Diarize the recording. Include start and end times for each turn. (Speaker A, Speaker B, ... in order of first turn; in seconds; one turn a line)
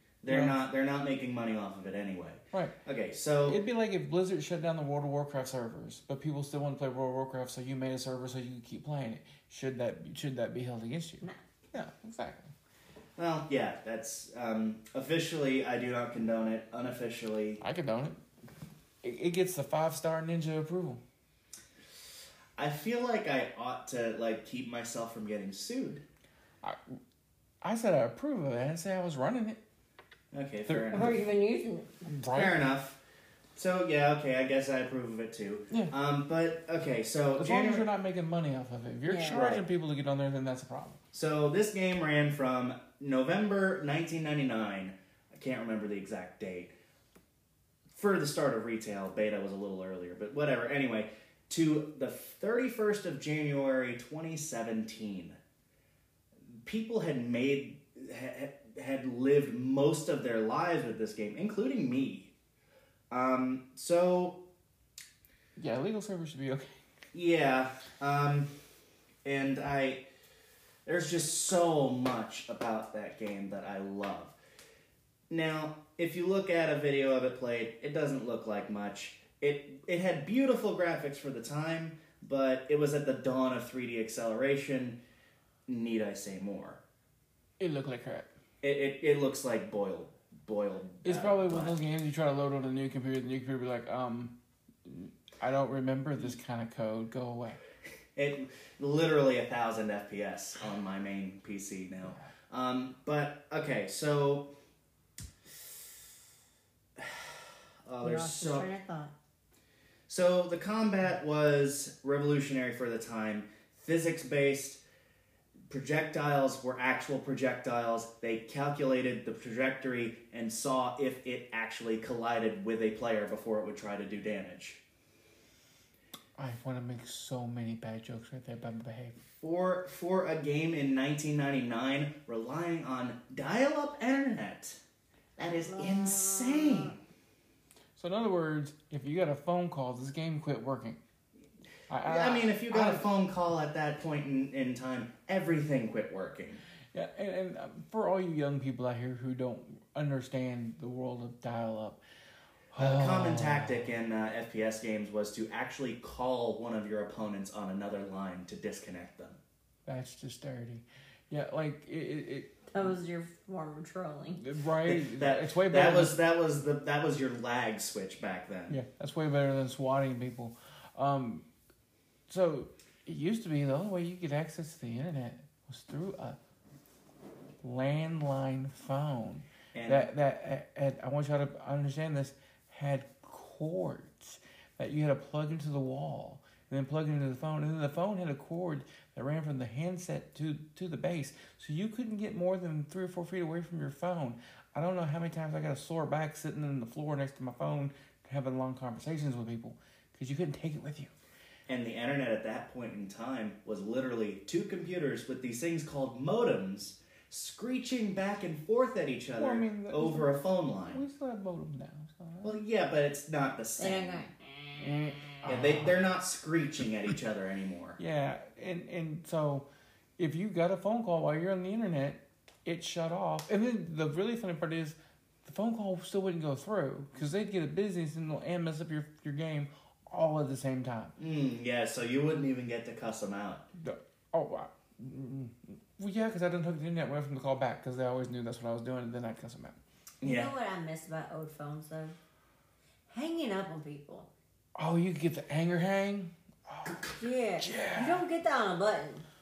Speaker A: 0.2-3.6
Speaker B: 0.2-0.6
Speaker B: 2.5-2.8
Speaker B: 3.4-12.5
Speaker A: 13.2-17.6
Speaker B: 17.6-18.2
Speaker B: 19.0-21.0
Speaker A: 22.6-26.0
Speaker B: 26.6-26.9
Speaker B: 27.6-29.6
Speaker A: 30.3-31.2
Speaker B: 30.7-31.1
Speaker C: 30.9-32.0
Speaker B: 32.0-32.6
Speaker A: 32.3-33.0
Speaker A: 33.5-37.9
Speaker B: 37.4-41.0
Speaker C: 39.0-39.4
Speaker A: 39.2-39.6
Speaker A: 41.1-46.7
Speaker A: 47.9-55.4
Speaker A: 56.6-62.3
Speaker A: 63.1-64.4
Speaker B: 65.5-66.8
Speaker A: 67.1-68.5
Speaker A: 69.2-70.0
Speaker A: 70.9-74.3
Speaker A: 75.3-85.0
Speaker A: 85.7-86.8
Speaker B: 87.6-88.3
Speaker A: 88.6-91.8
Speaker B: 91.0-97.6
Speaker A: 98.2-104.5
Speaker A: 107.0-108.7
Speaker C: 108.0-109.1
Speaker A: 110.1-114.8
Speaker A: 115.7-124.8
Speaker B: 126.4-129.2
Speaker A: 129.3-134.8
Speaker A: 135.4-137.0
Speaker C: 135.7-136.9
Speaker B: 137.9-141.0
Speaker B: 141.9-143.1
Speaker A: 142.0-146.6
Speaker B: 146.9-152.0
Speaker B: 152.7-153.9
Speaker A: 152.7-159.4
Speaker B: 159.9-162.5
Speaker C: 162.7-164.4
Speaker B: 164.3-166.2
Speaker A: 164.8-168.8
Speaker B: 168.7-171.4
Speaker B: 172.3-176.4
Speaker B: 177.6-201.1
Speaker A: 179.7-180.1
Speaker A: 201.7-211.0
Speaker B: 209.4-212.6
Speaker A: 212.4-214.2
Speaker C: 213.8-214.3
Speaker B: 214.8-216.0
Speaker A: 215.4-218.0
Speaker B: 218.0-231.1
Speaker A: 231.2-233.7
Speaker B: 233.8-239.8
Speaker A: 240.2-240.5
Speaker C: 240.2-242.2
Speaker C: 243.1-244.3
Speaker B: 244.8-247.0
Speaker C: 247.1-249.2
Speaker B: 247.6-248.2